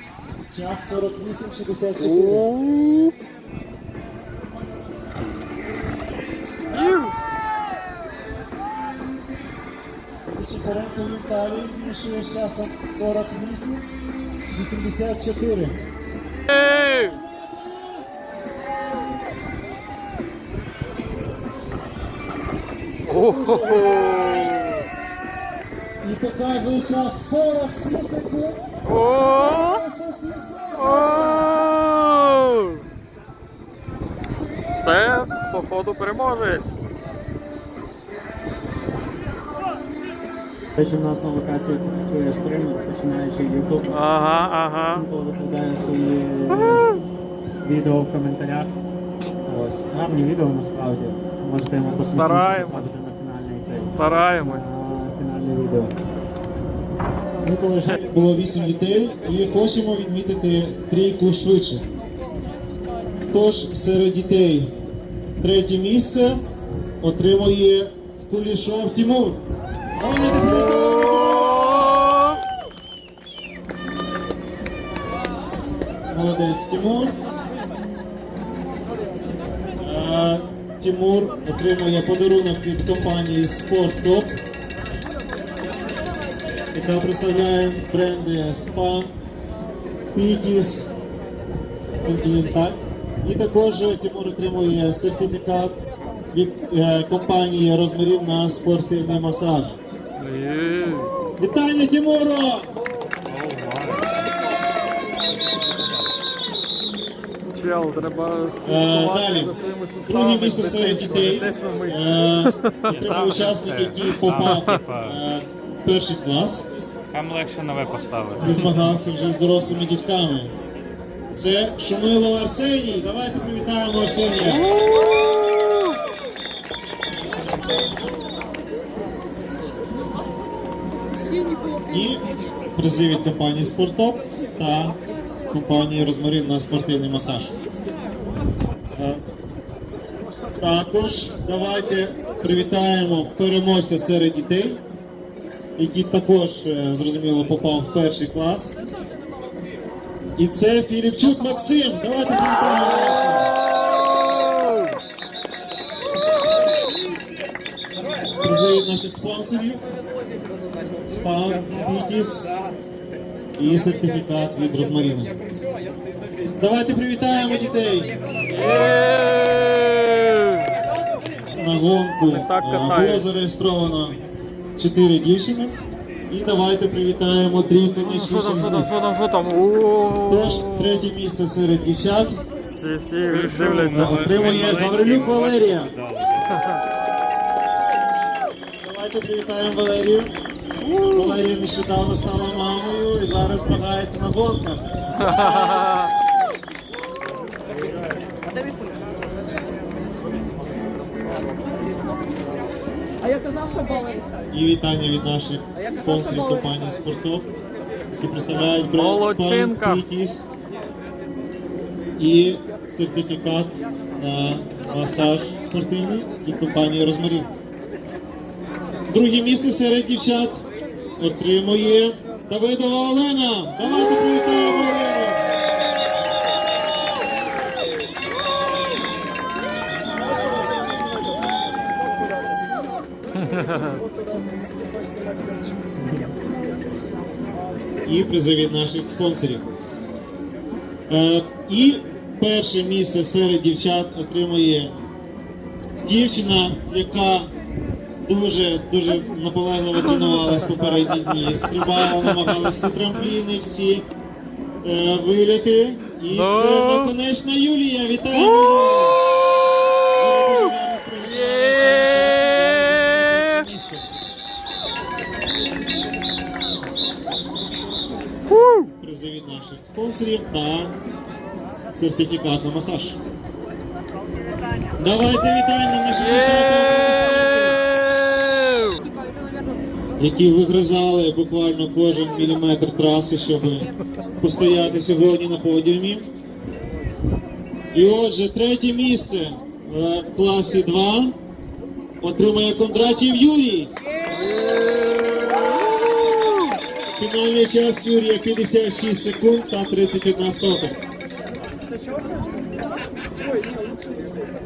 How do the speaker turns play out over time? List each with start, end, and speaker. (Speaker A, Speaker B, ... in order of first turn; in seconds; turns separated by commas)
Speaker A: 0.5-2.5, Speaker B: 2.0-3.2, Speaker B: 6.7-7.2, Speaker A: 10.2-13.9, Speaker A: 14.5-15.8, Speaker B: 16.5-17.2, Speaker B: 23.1-24.8, Speaker A: 23.2-24.6, Speaker A: 26.0-28.6, Speaker B: 28.9-29.8, Speaker A: 29.5-31.5, Speaker B: 30.8-32.8, Speaker B: 34.8-36.8, Speaker C: 40.8-44.0, Speaker B: 43.9-45.1, Speaker C: 44.9-46.9, Speaker B: 46.5-47.0, Speaker C: 47.6-48.7, Speaker C: 49.5-56.0, Speaker B: 52.0-52.9, Speaker B: 53.9-54.7, Speaker C: 57.4-58.1, Speaker A: 58.1-61.9, Speaker A: 63.3-64.7, Speaker A: 65.4-66.5, Speaker A: 67.0-71.8, Speaker A: 76.1-77.2, Speaker A: 79.8-84.4, Speaker A: 86.7-89.1, Speaker A: 90.1-90.9, Speaker A: 92.0-95.8, Speaker A: 96.3-99.8, Speaker B: 100.2-101.1, Speaker A: 101.4-102.7, Speaker D: 103.3-104.1, Speaker B: 107.5-113.2, Speaker A: 108.7-109.5, Speaker A: 110.1-116.7, Speaker D: 112.9-115.2, Speaker B: 114.3-114.8, Speaker D: 117.1-118.8, Speaker A: 118.4-120.5, Speaker A: 121.3-124.7, Speaker B: 124.5-125.9, Speaker A: 131.9-135.0, Speaker A: 135.5-137.6, Speaker A: 138.9-139.2, Speaker A: 140.6-144.8, Speaker A: 145.8-148.7, Speaker A: 150.4-153.5, Speaker A: 158.4-159.8, Speaker A: 161.1-162.4, Speaker A: 163.6-165.3, Speaker A: 166.6-168.1, Speaker B: 168.5-170.7, Speaker A: 171.5-174.2, Speaker B: 172.2-173.3, Speaker A: 174.8-175.8, Speaker A: 176.3-178.9, Speaker B: 178.0-181.1, Speaker A: 180.3-182.4, Speaker B: 182.7-184.5, Speaker D: 183.3-186.5, Speaker A: 183.9-185.9, Speaker A: 188.8-190.3, Speaker B: 190.8-191.4, Speaker A: 191.1-195.9, Speaker B: 195.2-196.1, Speaker A: 204.5-207.5, Speaker A: 208.1-210.4, Speaker B: 208.9-210.1, Speaker A: 212.2-217.5, Speaker A: 219.1-220.6, Speaker A: 221.2-225.4, Speaker B: 233.5-234.0, Speaker A: 238.1-239.7, Speaker A: 241.1-245.0, Speaker A: 246.0-247.5, Speaker A: 248.2-254.1, Speaker B: 250.2-250.5, Speaker A: 254.8-259.2, Speaker B: 256.3-257.1, Speaker B: 258.4-259.2, Speaker A: 260.2-264.1, Speaker B: 261.4-262.2, Speaker B: 268.5-268.9, Speaker A: 268.9-271.0, Speaker A: 271.9-273.2, Speaker A: 275.0-277.8, Speaker B: 276.2-279.1, Speaker A: 280.2-286.3, Speaker A: 287.9-291.4, Speaker A: 292.2-293.9, Speaker A: 297.2-301.0